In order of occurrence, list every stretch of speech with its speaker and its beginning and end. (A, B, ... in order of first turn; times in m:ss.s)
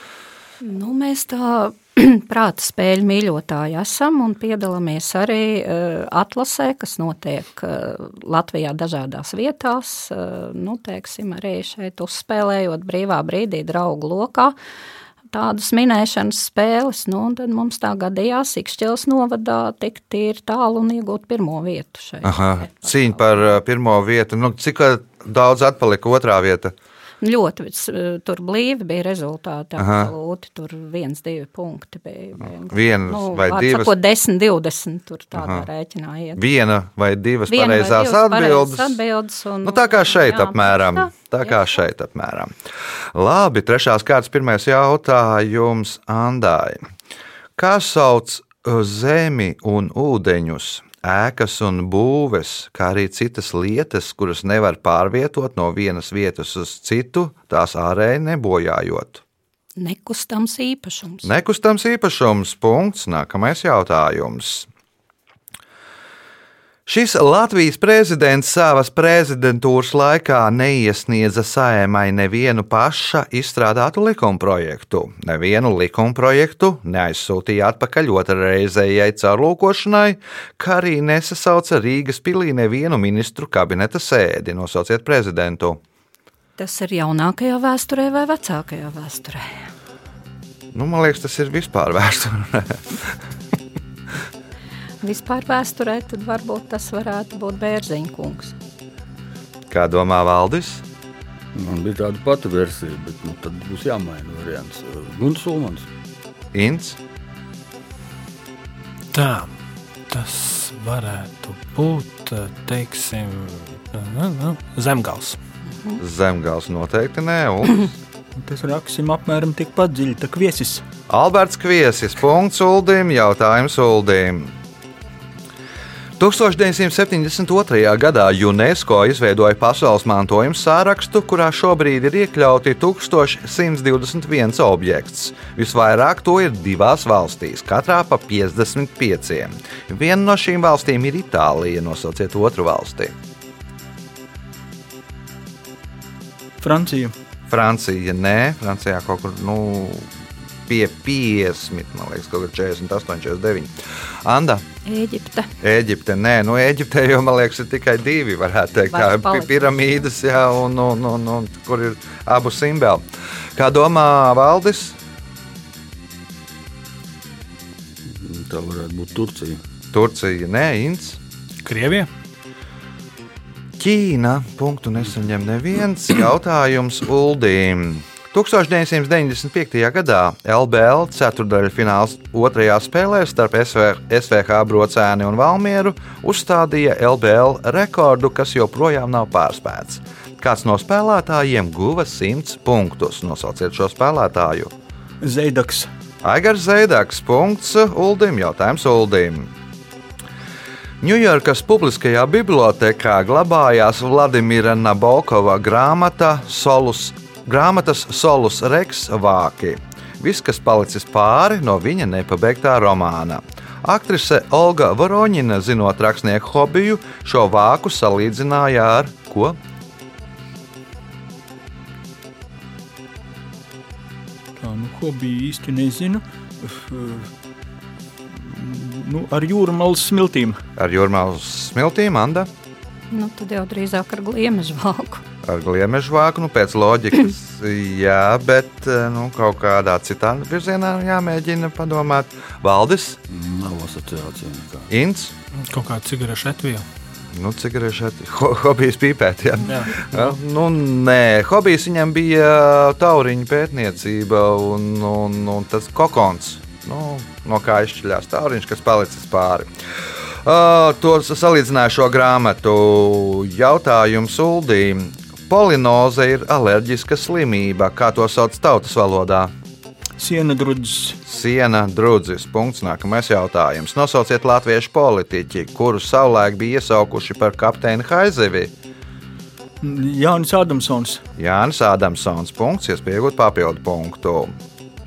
0:00.6-0:14.5 A
0:15.3-0:23.6 A
0:22.2-0:26.7 B
0:27.2-0:36.4 A
0:29.8-0:30.1 B
0:32.6-0:33.9 B
0:35.3-0:35.7 B
0:36.4-0:39.0 B
0:37.5-0:41.8 A
0:39.6-0:42.5 B
0:43.1-0:46.8 B
0:47.6-0:59.2 B
0:59.8-1:01.3 A
1:01.2-1:04.7 B
1:06.8-1:25.8 B
1:26.6-1:29.6 A
1:30.7-1:33.2 B
1:35.0-1:38.6 A
1:39.7-1:40.8 B
1:41.5-1:45.9 C
1:46.5-1:47.0 B
1:49.1-1:49.5 D
1:50.1-1:55.4 D
1:56.0-1:57.9 B
1:58.4-2:00.8 E
2:01.1-2:04.6 B
2:06.2-2:23.1 B
2:26.6-2:27.1 E
2:27.5-2:30.1 B
2:30.7-2:33.7 B
2:34.2-2:34.6 B
2:34.8-2:35.5 A
2:35.6-2:43.0 B
2:38.8-2:40.0 A
2:43.6-2:45.0 B
2:48.0-2:49.6 C
2:49.9-2:51.2 B
2:51.6-2:52.1 D
2:53.8-3:14.7 B
3:15.2-3:15.9 E
3:16.2-3:19.5 B
3:21.0-3:39.6 B
3:44.6-3:47.3 E
3:48.3-3:50.6 E
3:50.8-3:52.5 B
3:53.1-3:55.2 A
3:55.4-4:03.2 B
4:03.3-4:04.9 C
4:04.9-4:05.3 B
4:05.5-4:06.8 D
4:07.3-4:19.7 B
4:09.7-4:10.4 D
4:20.4-4:29.5 B
4:30.2-4:31.2 E
4:31.2-4:38.7 B
4:39.8-4:41.2 E
4:41.4-4:44.5 B